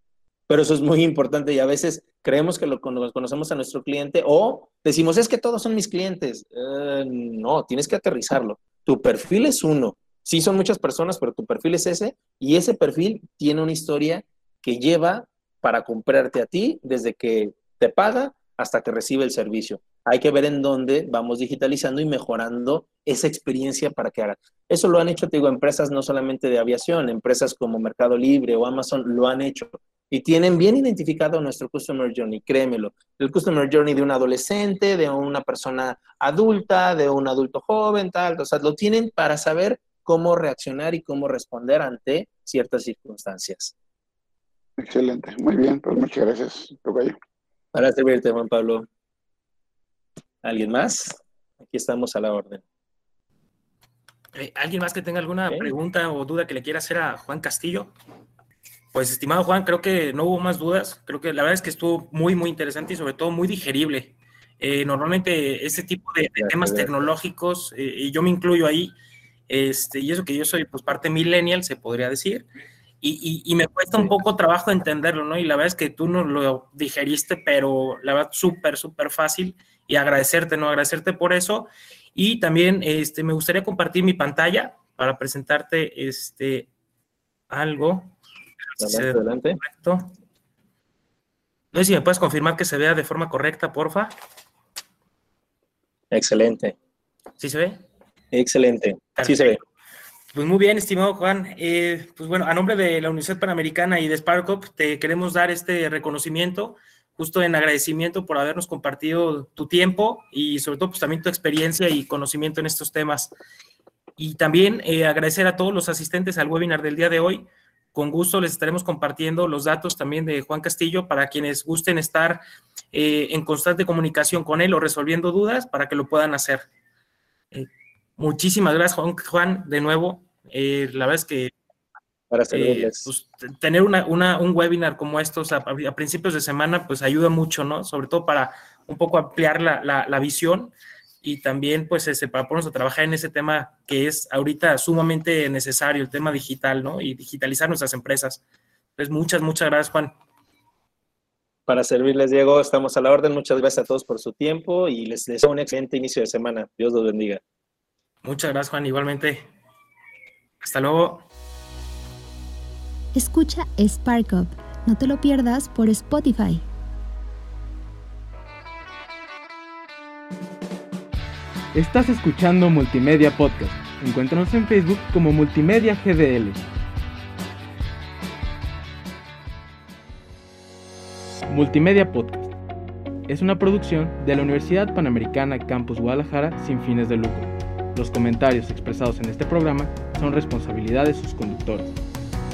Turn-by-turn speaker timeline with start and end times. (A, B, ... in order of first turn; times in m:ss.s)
0:00.5-0:43.7 A
0:44.8-0:47.2 B
0:47.7-0:48.9 A
0:50.4-0:52.6 A
0:54.4-0:57.9 C
0:58.9-1:08.9 C
1:06.4-1:06.9 A
1:09.5-1:12.5 C
1:13.0-1:26.7 C
1:27.5-1:28.1 C
1:28.8-1:29.6 A
1:28.8-1:30.1 C
1:31.7-1:34.2 C
1:36.1-1:36.8 A
1:37.4-1:37.8 C
1:38.3-1:39.6 A
1:39.2-1:39.6 C
1:40.3-1:53.3 C
1:54.2-2:02.4 C
2:02.9-2:06.7 C
2:07.5-2:11.5 C
2:12.3-2:13.1 A
2:12.5-2:28.4 C
2:29.0-2:30.2 C
2:31.7-2:37.4 A
2:38.2-2:39.5 C
2:40.6-2:41.2 C
2:43.1-2:46.6 D
2:51.7-2:56.6 E
3:01.5-3:02.5 E
3:03.3-3:12.0 E